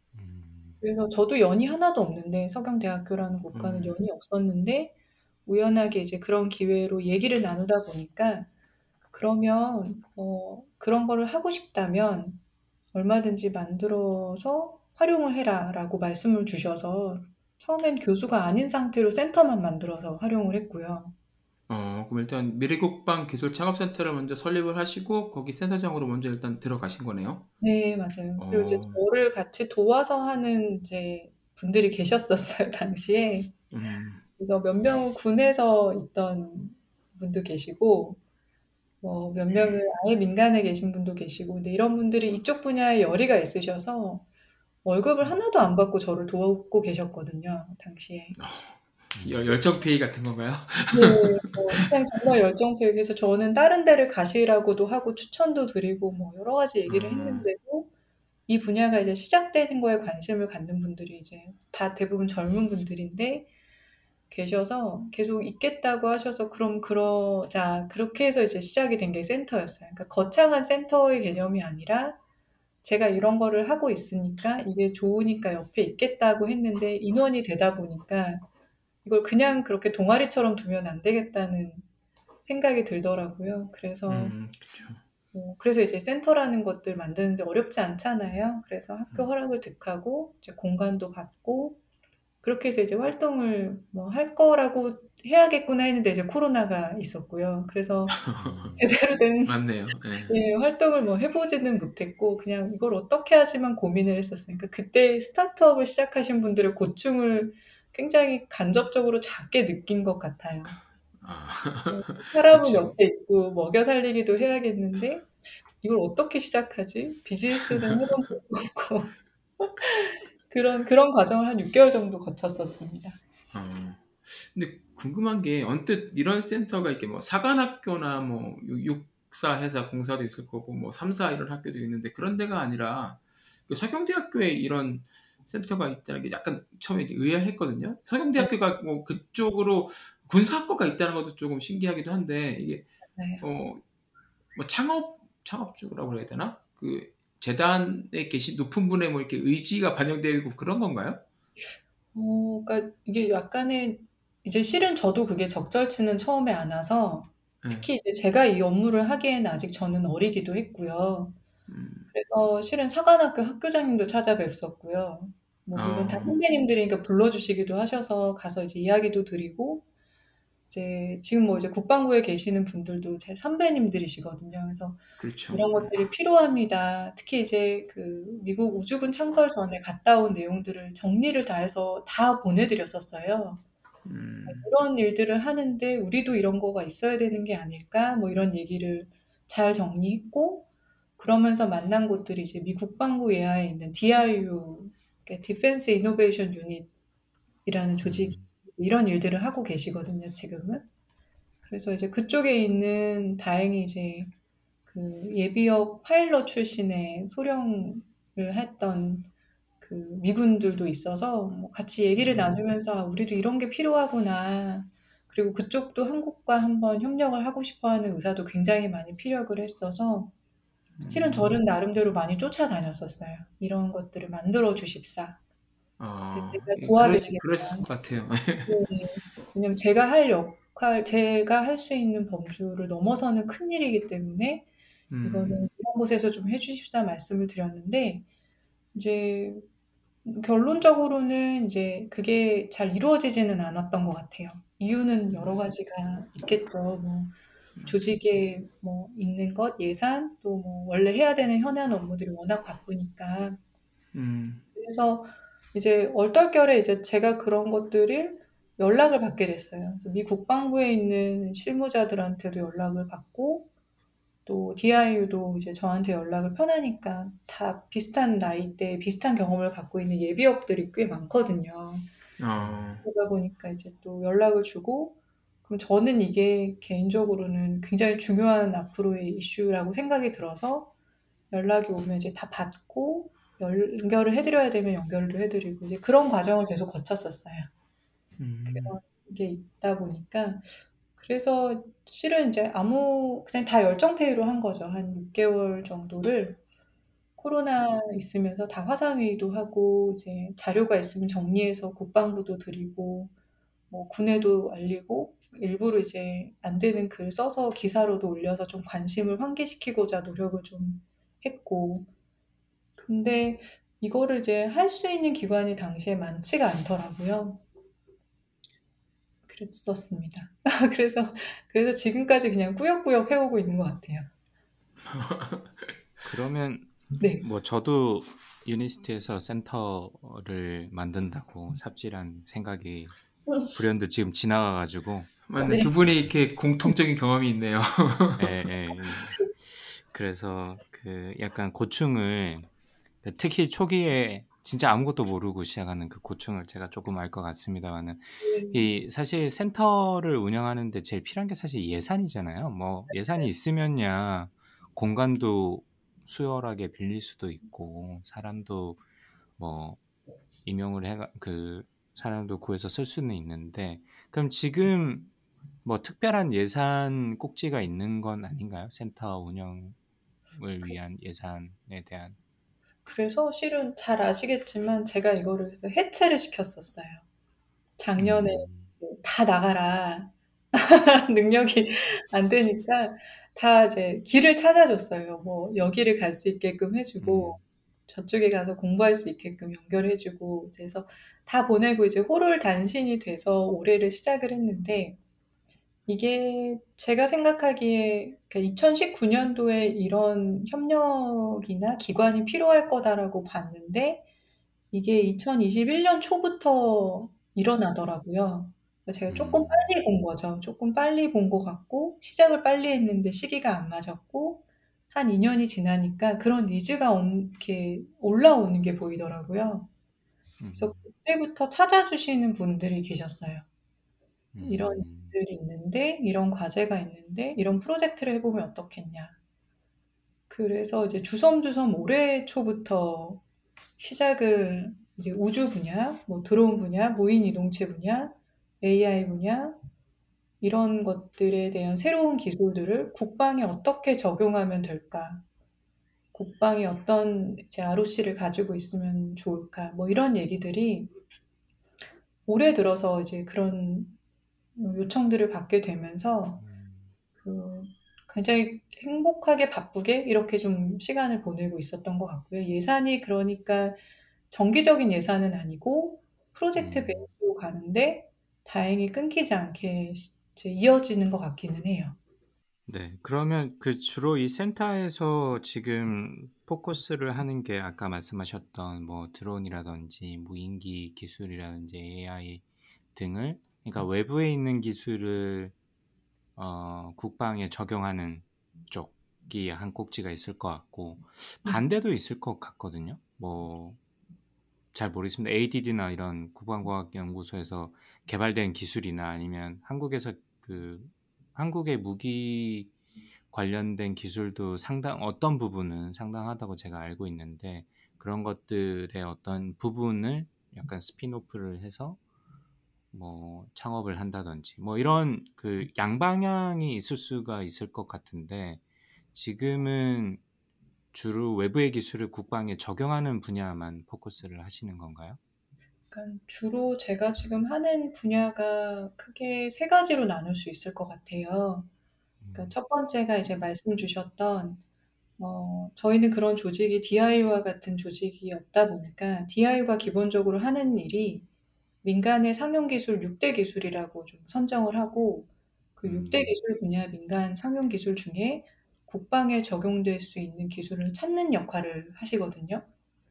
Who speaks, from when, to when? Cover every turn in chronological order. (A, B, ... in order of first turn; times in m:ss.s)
0:00.1-0:00.8 A
0:00.8-0:04.9 B
0:03.5-0:04.0 C
0:05.5-0:08.5 B
0:09.1-0:12.4 B
0:12.9-0:21.2 B
0:21.7-0:27.5 C
0:27.6-0:33.6 B
0:28.4-0:29.0 C
0:33.7-0:34.2 C
0:34.4-0:38.2 B
0:39.0-0:44.2 B
0:44.8-0:48.4 B
0:48.4-0:51.8 C
0:49.2-0:49.4 A
0:50.9-0:57.9 B
0:56.9-0:57.5 C
0:58.5-1:03.5 B
1:04.3-1:12.2 B
1:12.8-1:18.4 B
1:19.0-1:21.8 B
1:22.5-1:24.4 B
1:24.1-1:25.0 C
1:25.3-1:31.8 B
1:32.4-1:38.2 B
1:38.1-1:38.8 C
1:38.4-1:38.9 A
1:38.8-1:39.6 B
1:39.4-1:40.4 C
1:40.3-1:50.8 B
1:51.2-1:53.0 C
1:51.9-2:03.2 B
1:57.7-1:58.0 C
2:03.5-2:23.8 C
2:23.1-2:23.4 B
2:24.6-2:31.2 C
2:31.7-2:41.4 B
2:37.6-2:37.9 C
2:41.7-2:42.1 C
2:42.1-2:49.8 B
2:45.8-2:46.4 C
2:50.7-3:03.6 B
2:55.2-2:55.9 C
3:04.0-3:04.7 C
3:04.5-3:10.7 B
3:11.2-3:16.9 B
3:17.6-3:20.9 B
3:18.0-3:18.5 A
3:21.6-3:24.3 B
3:24.9-3:29.3 B
3:29.8-3:40.3 B
3:32.2-3:32.6 C
3:41.0-3:41.6 C
3:41.1-3:45.4 B
3:46.0-3:48.7 C
3:46.3-3:47.9 B
3:48.7-3:54.7 B
3:55.1-3:55.6 C
3:55.2-3:58.2 B
3:58.9-3:59.6 B
4:00.2-4:07.4 B
4:07.9-4:13.6 B
4:14.1-4:14.6 C
4:14.8-4:23.7 B
4:24.5-4:32.1 B
4:32.4-4:33.0 C
4:33.0-4:40.9 B
4:41.5-4:47.7 B
4:48.4-4:49.0 C
4:48.7-4:56.6 B
4:57.4-5:03.3 B
5:03.9-5:12.1 B
5:13.0-5:17.6 B
5:19.5-5:24.3 B
5:25.1-5:25.9 C
5:26.2-5:36.0 A
5:27.2-5:27.4 B
5:35.5-5:38.6 C
5:35.6-5:35.9 B
5:38.4-5:42.7 A
5:43.2-5:59.0 A
5:48.4-5:48.9 B
5:59.6-6:00.0 A
6:00.6-6:05.3 A
6:05.8-6:10.0 A
6:10.5-6:12.4 A
6:13.0-6:17.2 B
6:18.0-6:35.2 B
6:18.2-6:18.9 A
6:27.2-6:27.6 A
6:36.1-6:44.2 B
6:44.9-6:59.9 B
6:49.3-6:50.0 A
7:00.6-7:01.0 A
7:00.8-7:03.7 B
7:04.5-7:05.4 A
7:04.6-7:09.4 B
7:10.5-7:13.4 B
7:14.0-7:19.8 B
7:20.6-7:25.4 B
7:26.3-7:31.1 B
7:32.5-7:34.2 B
7:34.8-7:36.6 B
7:36.6-7:37.1 A
7:37.4-7:44.0 B
7:44.5-7:52.2 B
7:46.8-7:47.3 A
7:52.9-8:02.6 A
8:03.2-8:05.7 A
8:06.6-8:14.0 A
8:14.9-8:22.9 A
8:23.5-8:32.2 A
8:33.1-8:38.8 A
8:39.3-8:40.4 A
8:41.1-8:45.4 A
8:46.1-8:51.9 B
8:52.4-8:52.7 A
8:52.6-8:54.8 B
8:55.4-9:01.5 B
9:02.0-9:12.8 B
9:06.0-9:06.6 A